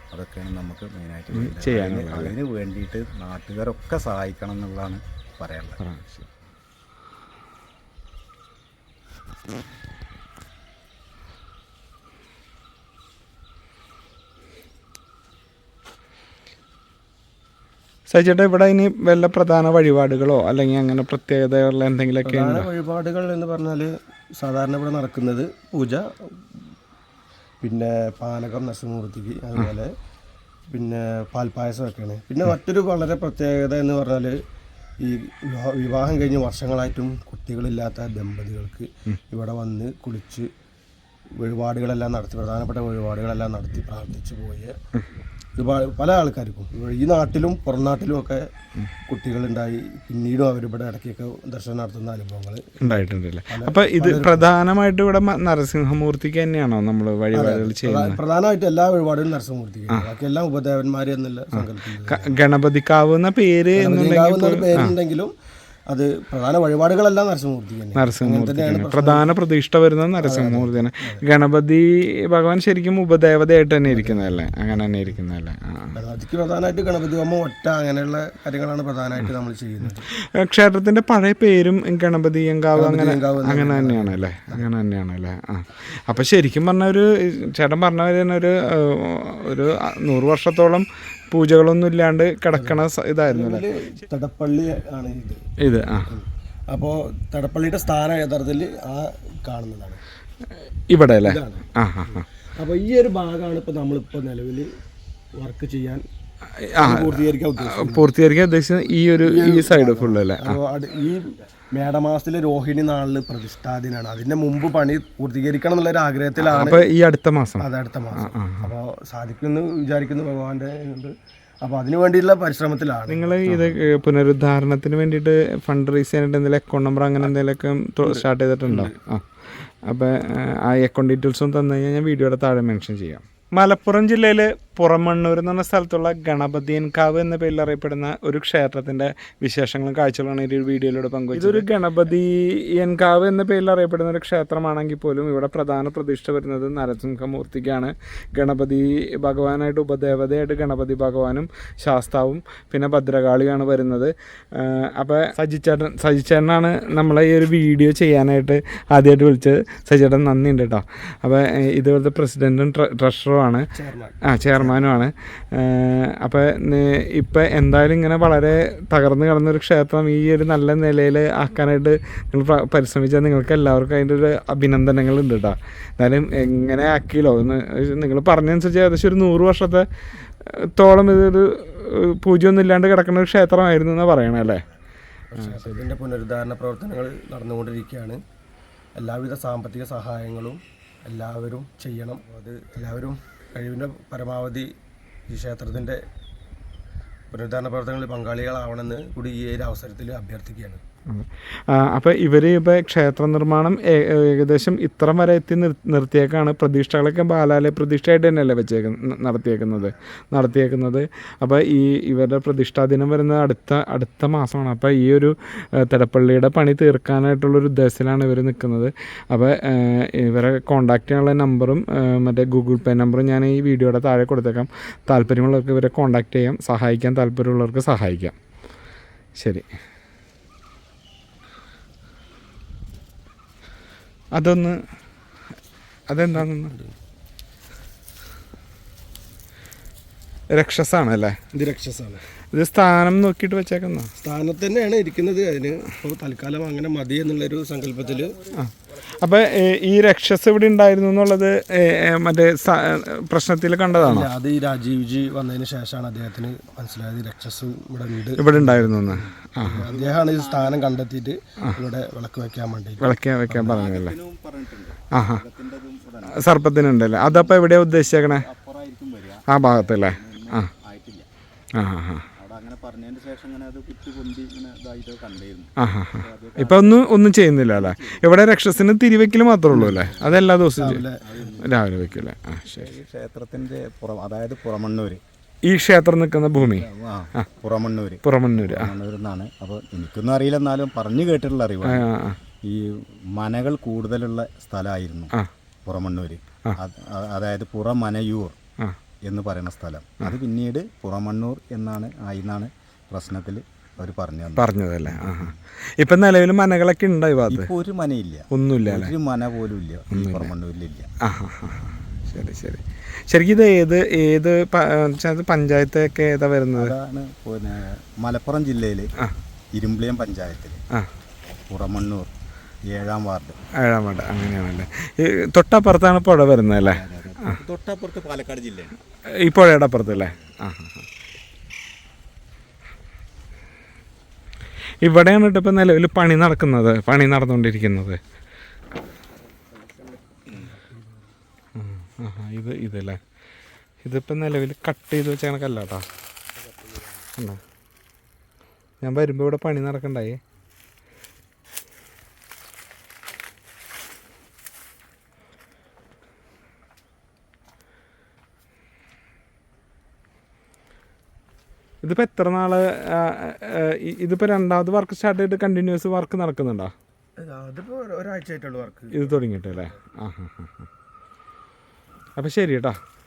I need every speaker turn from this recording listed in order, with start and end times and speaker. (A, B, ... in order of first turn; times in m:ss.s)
0:00.1-0:05.8 A
0:01.3-0:02.4 B
0:05.8-0:06.3 B
0:18.1-0:22.7 B
0:22.2-0:26.6 C
0:27.6-0:29.9 C
0:30.7-0:34.4 C
0:35.0-0:40.5 C
0:41.4-0:44.8 C
0:45.6-0:48.4 C
0:49.1-0:54.5 C
0:52.8-0:58.2 B
0:57.3-1:02.3 C
1:01.6-1:04.9 B
1:03.8-1:05.3 C
1:05.9-1:09.3 C
1:08.0-1:16.0 B
1:10.2-1:11.2 C
1:13.9-1:14.3 C
1:16.0-1:20.1 C
1:20.0-1:34.0 B
1:22.8-1:24.7 C
1:32.5-1:35.5 C
1:35.6-1:36.1 B
1:36.0-1:40.0 C
1:40.9-1:42.2 B
1:41.2-1:44.7 C
1:45.4-1:46.0 C
1:46.6-1:50.6 B
1:46.8-1:48.1 C
1:49.2-1:56.9 C
1:56.4-1:57.6 B
1:57.6-2:03.8 C
1:58.2-1:58.7 B
2:03.1-2:43.7 B
2:08.0-2:08.9 C
2:43.7-2:44.7 C
2:44.2-2:59.8 B
3:00.4-3:04.6 B
3:04.4-3:04.8 A
3:05.3-3:08.2 C
3:05.4-3:05.8 B
3:09.0-3:14.7 C
3:15.3-3:16.0 C
3:17.3-3:20.8 C
3:21.1-3:48.4 B
3:49.4-3:49.6 B
3:54.3-3:54.8 B
3:56.1-3:56.7 B
4:00.5-4:01.4 B
4:01.5-4:02.2 C
4:02.5-4:04.1 B
4:04.2-4:08.4 C
4:08.5-4:14.3 B
4:14.0-4:23.8 C
4:18.4-4:19.8 B
4:19.8-4:20.8 A
4:23.0-4:24.1 B
4:23.6-4:26.5 A
4:25.1-4:25.4 B
4:26.3-4:28.4 B
4:27.2-4:31.3 A
4:29.5-4:30.7 B
4:31.7-4:32.3 B
4:32.3-4:38.4 A
4:35.8-4:41.0 B
4:39.7-4:41.2 C
4:41.2-4:42.2 A
4:41.6-4:42.9 B
4:42.7-4:45.2 A
4:45.6-4:47.4 B
4:46.6-4:52.1 A
4:48.2-4:48.9 B
4:51.8-4:52.4 B
4:52.6-4:55.3 A
4:55.8-4:58.6 A
4:59.2-5:05.6 A
5:04.6-5:07.7 B
5:07.4-5:11.1 A
5:08.5-5:09.1 B
5:10.1-5:10.5 B
5:11.2-5:16.9 B
5:16.8-5:19.1 A
5:19.7-5:20.8 A
5:21.5-5:22.3 A
5:22.8-5:23.6 A
5:23.7-5:27.6 B
5:26.8-5:29.0 A
5:29.3-5:31.0 B
5:30.0-5:30.5 A
5:35.0-5:38.2 B
5:40.5-5:40.9 C
5:41.8-5:43.2 B
5:44.0-5:46.0 B
5:49.0-5:50.4 B
6:02.0-6:06.9 B
6:07.4-6:09.9 C
6:09.1-6:10.8 B
6:12.4-6:13.0 B